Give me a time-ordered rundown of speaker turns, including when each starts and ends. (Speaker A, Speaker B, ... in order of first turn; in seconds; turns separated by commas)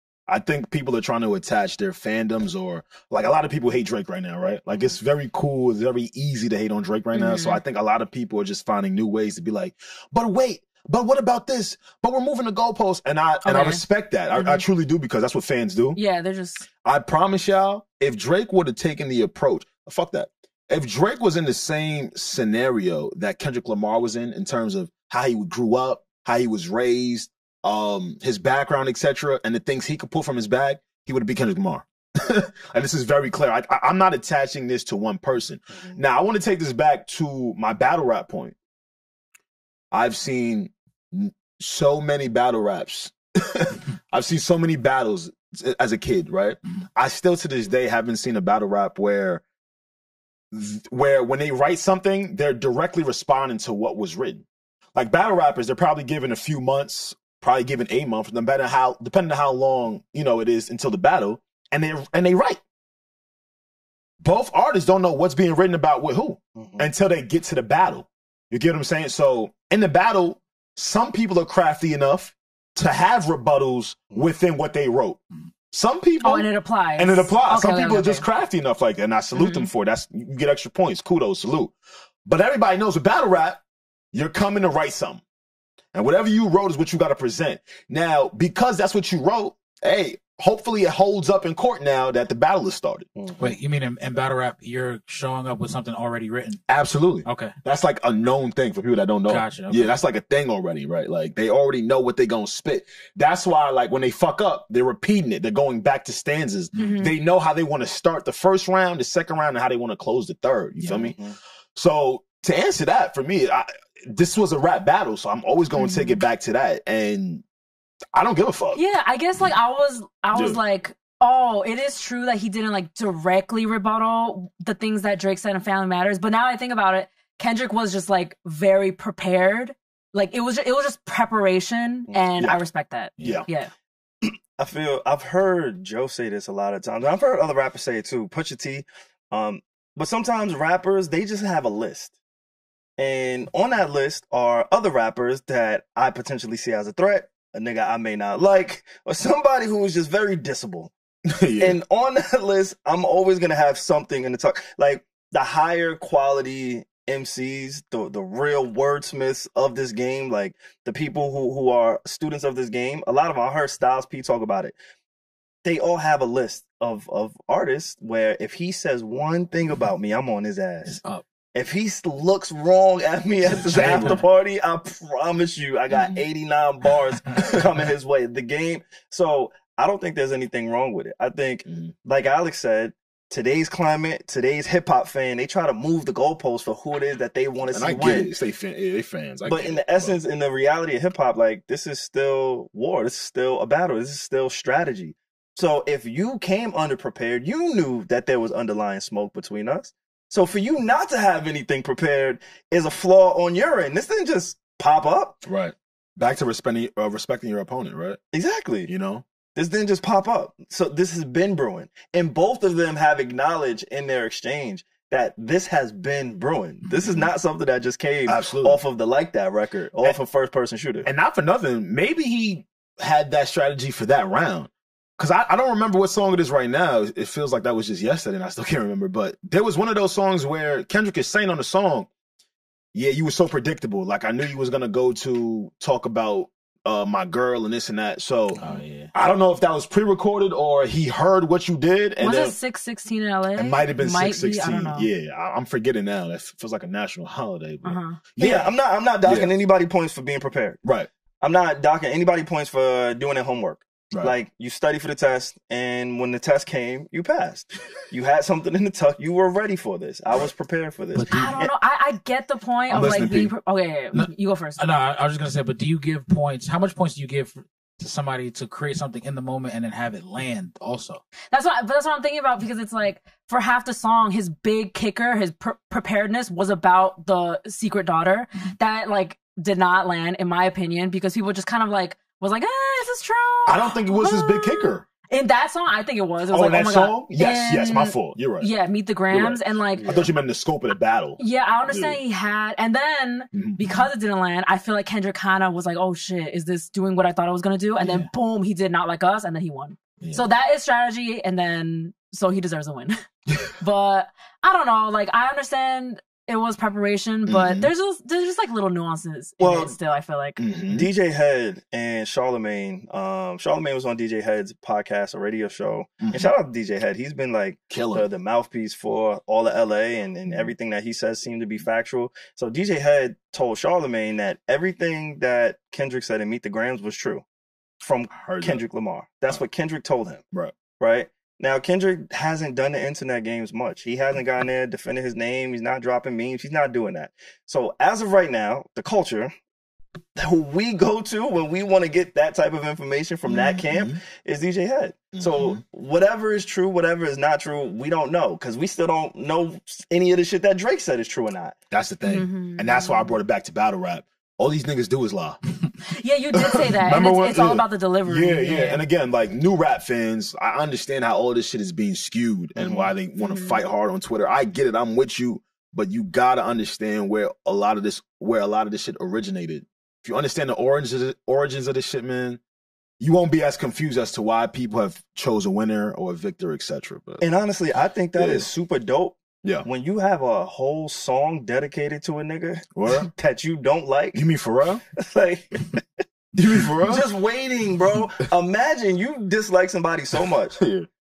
Speaker A: 0.3-16.0, Speaker B: 7.1-7.6, Speaker B: 13.4-13.8, Speaker B: 14.3-14.6, Speaker B: 15.9-16.7, Speaker A: 16.8-38.5, Speaker A: 39.9-49.4, Speaker A: 50.5-62.6, Speaker A: 64.2-81.7, Speaker C: 66.6-66.9, Speaker B: 76.2-78.2, Speaker B: 79.4-79.7, Speaker A: 82.2-83.6, Speaker A: 84.1-85.2, Speaker A: 85.9-93.1, Speaker D: 93.4-96.6, Speaker A: 96.7-111.2, Speaker D: 97.2-97.5, Speaker D: 99.3-99.9, Speaker B: 106.8-107.1, Speaker C: 110.8-111.4, Speaker A: 111.8-117.4, Speaker B: 115.8-116.1, Speaker A: 118.2-118.8, Speaker B: 118.8-133.7, Speaker A: 120.3-120.6, Speaker A: 133.2-133.5, Speaker C: 134.2-142.1, Speaker C: 143.0-150.9, Speaker A: 151.3-151.8, Speaker C: 151.6-164.8, Speaker C: 165.6-171.0, Speaker C: 171.5-188.3, Speaker A: 173.6-174.2, Speaker A: 175.9-176.2, Speaker A: 181.7-181.9, Speaker A: 187.7-190.2, Speaker C: 189.4-205.4, Speaker A: 205.4-208.2, Speaker C: 208.3-208.9, Speaker A: 208.9-209.2, Speaker C: 209.6-221.1, Speaker A: 218.3-218.8, Speaker A: 221.0-232.1, Speaker A: 232.9-242.6, Speaker D: 238.6-239.1, Speaker B: 242.2-245.1, Speaker A: 243.6-249.5, Speaker B: 247.8-248.2, Speaker C: 248.4-250.8, Speaker C: 251.4-261.7, Speaker D: 261.1-261.6, Speaker B: 261.3-264.9, Speaker A: 262.9-263.5, Speaker D: 264.8-271.2, Speaker B: 271.5-290.1, Speaker A: 283.7-285.1, Speaker A: 286.5-288.7, Speaker A: 289.3-292.2, Speaker C: 289.9-290.3, Speaker B: 291.4-303.2, Speaker A: 293.5-294.1, Speaker B: 303.8-310.6, Speaker A: 307.5-307.9, Speaker C: 309.6-310.0, Speaker A: 310.6-311.1, Speaker C: 310.9-327.4, Speaker A: 316.2-316.5, Speaker A: 317.9-318.3, Speaker C: 328.0-330.4, Speaker A: 328.3-328.8, Speaker C: 331.0-339.5, Speaker C: 340.4-351.8, Speaker A: 343.5-344.2, Speaker A: 345.4-345.8, Speaker A: 351.9-355.6, Speaker B: 352.2-353.3, Speaker B: 356.1-359.0, Speaker A: 356.7-372.6, Speaker C: 362.8-363.1, Speaker B: 363.4-363.8, Speaker A: 373.2-377.4, Speaker C: 377.4-384.5, Speaker A: 378.4-378.7, Speaker A: 383.0-383.3, Speaker A: 384.3-385.0, Speaker C: 385.2-386.0, Speaker A: 386.6-387.2, Speaker C: 387.0-390.8, Speaker A: 390.8-391.1